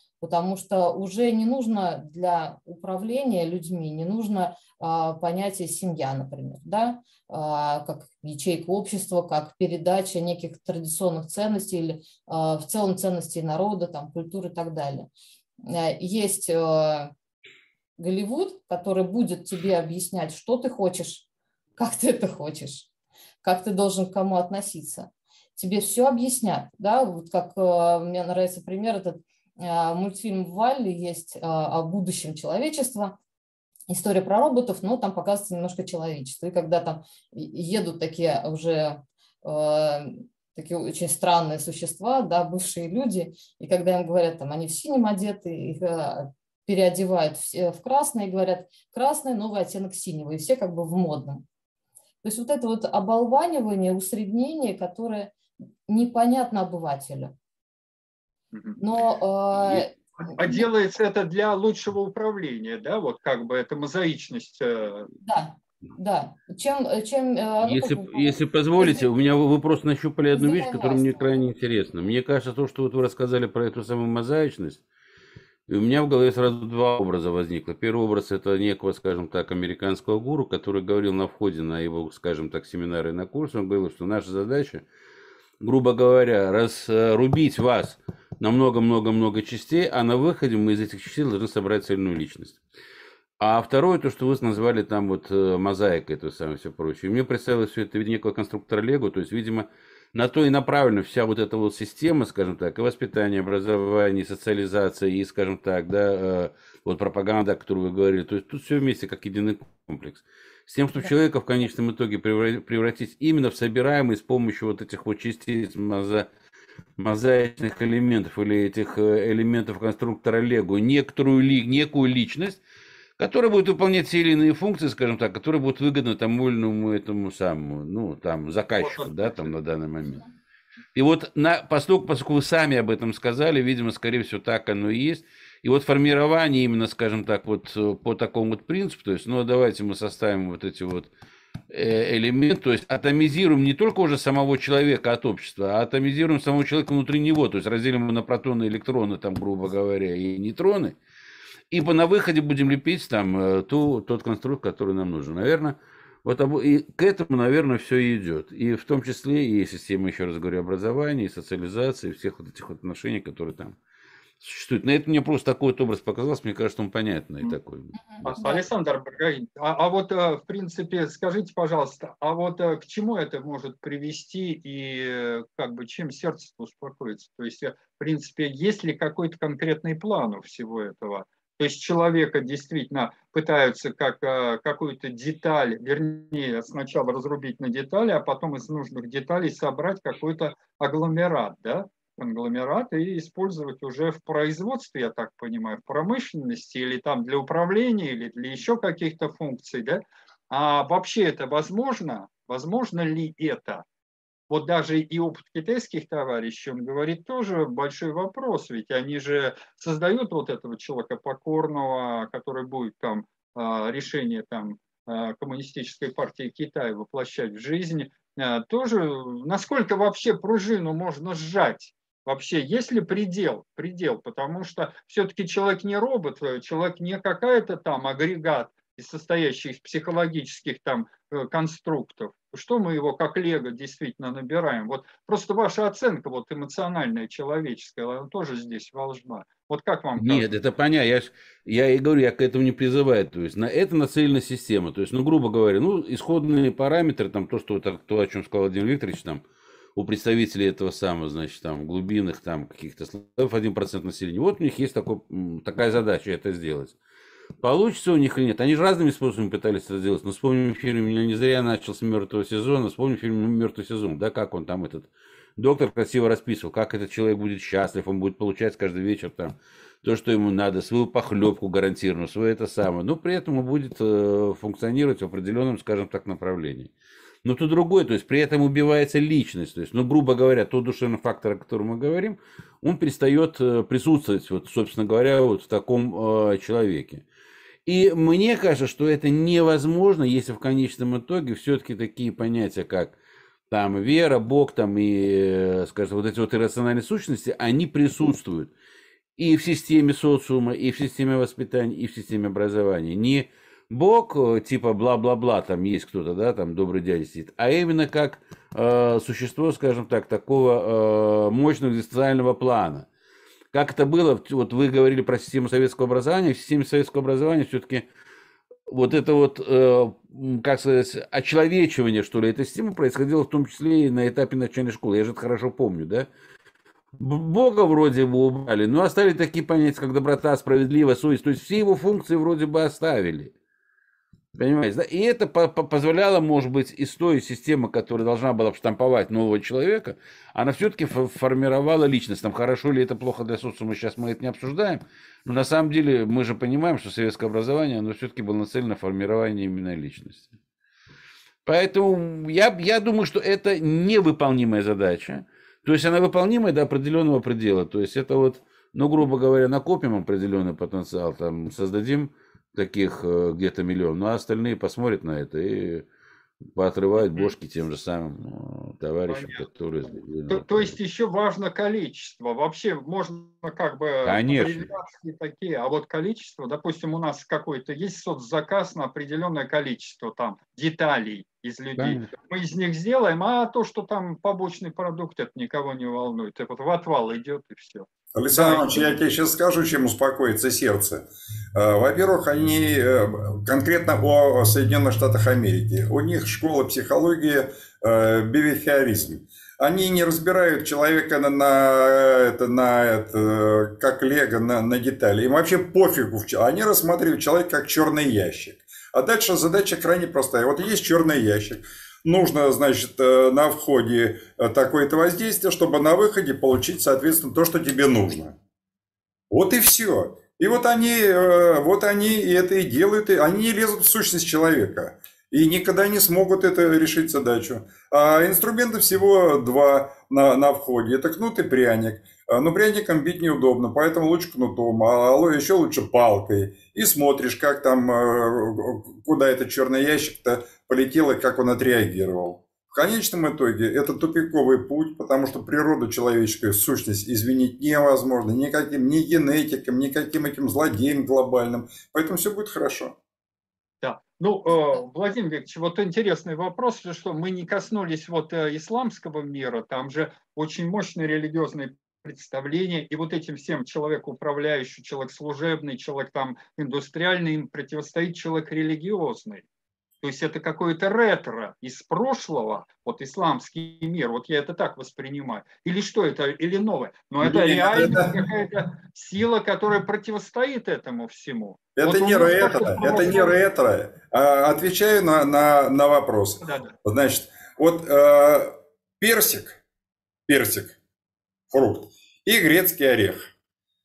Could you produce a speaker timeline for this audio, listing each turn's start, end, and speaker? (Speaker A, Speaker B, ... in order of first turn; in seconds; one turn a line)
Speaker A: 0.2-15.1
Speaker A: 15.6-17.1
Speaker A: 18.0-21.2
Speaker A: 21.8-22.9
Speaker A: 23.4-33.2
Speaker A: 33.9-51.4
Speaker A: 52.2-57.3
Speaker B: 58.5-58.8
Speaker A: 58.8-60.7
Speaker B: 59.8-65.1
Speaker A: 65.2-69.0
Speaker C: 67.6-74.8
Speaker A: 70.3-71.4
Speaker C: 75.7-84.8
Speaker C: 85.6-92.6
Speaker C: 93.4-116.3
Speaker C: 117.0-122.6
Speaker C: 123.2-130.2
Speaker B: 128.8-129.5
Speaker C: 130.9-141.1
Speaker C: 141.7-151.0
Speaker C: 151.7-163.8
Speaker C: 164.4-167.9
Speaker A: 167.9-168.6
Speaker B: 168.2-203.8
Speaker B: 204.5-240.5
Speaker C: 240.2-249.4
Speaker C: 249.9-257.0
Speaker C: 257.6-276.9
Speaker C: 277.4-287.2
Speaker C: 287.9-293.1
Speaker C: 293.7-298.7
Speaker C: 299.4-313.1
Speaker C: 313.7-318.0
Speaker C: 318.9-326.3
Speaker C: 327.1-333.5
Speaker C: 334.5-350.5
Speaker C: 351.6-366.0
Speaker C: 366.7-370.9
Speaker B: 369.3-369.6
Speaker B: 370.5-389.1
Speaker C: 374.2-374.9
Speaker C: 382.0-382.3
Speaker D: 388.3-418.6
Speaker D: 419.5-453.1
Speaker B: 454.0-469.6
Speaker B: 470.2-483.6
Speaker D: 477.4-478.4
Speaker D: 481.9-489.8
Speaker B: 486.6-486.9
Speaker D: 490.5-491.0
Speaker D: 491.7-493.4